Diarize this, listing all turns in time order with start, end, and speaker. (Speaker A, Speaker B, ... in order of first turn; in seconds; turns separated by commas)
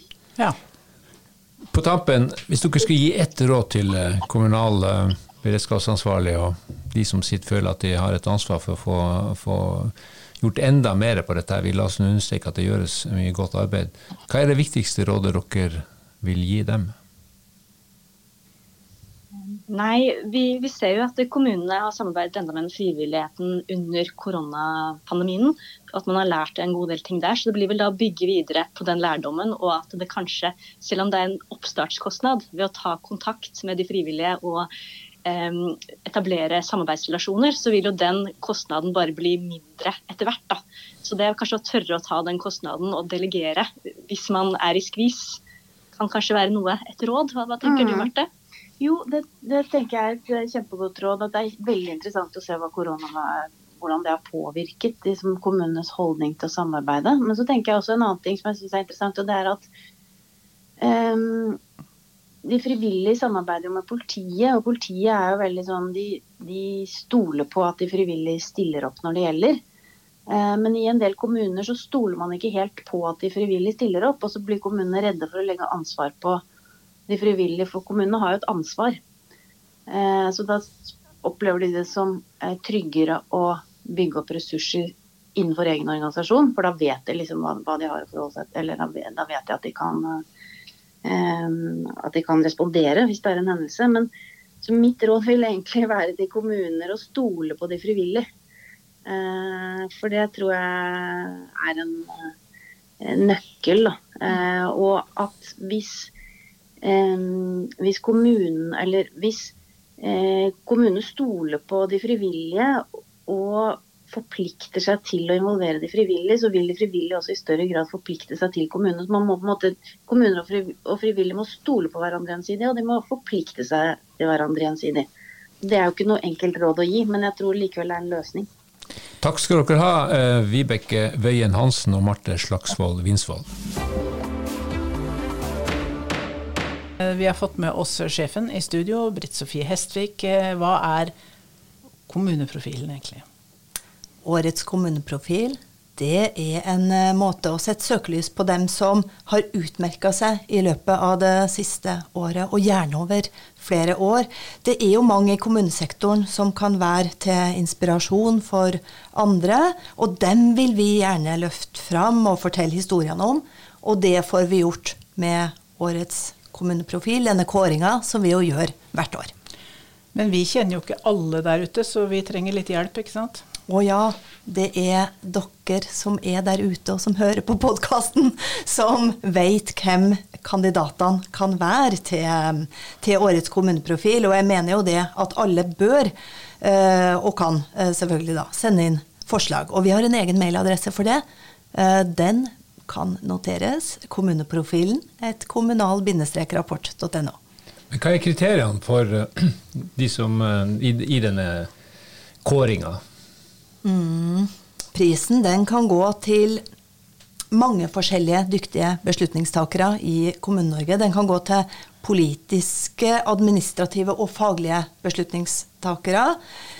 Speaker A: 1.7-16.9, Speaker B: 19.7-34.7, Speaker B: 35.2-45.4, Speaker B: 46.0-48.3, Speaker C: 47.6-48.1, Speaker C: 48.8-59.7, Speaker C: 60.8-61.6, Speaker C: 62.4-69.6, Speaker C: 70.3-76.4, Speaker C: 77.1-79.0, Speaker C: 79.9-90.2, Speaker C: 91.0-94.1, Speaker C: 94.6-98.2, Speaker C: 99.0-102.3, Speaker C: 103.0-106.1, Speaker C: 106.8-125.1, Speaker C: 125.6-128.5, Speaker A: 129.2-133.5, Speaker D: 137.0-141.1, Speaker D: 142.1-143.2, Speaker E: 144.2-169.3, Speaker D: 170.1-173.4, Speaker E: 173.7-197.3, Speaker A: 197.9-201.7, Speaker A: 202.4-203.0, Speaker E: 203.8-206.6, Speaker E: 207.5-216.4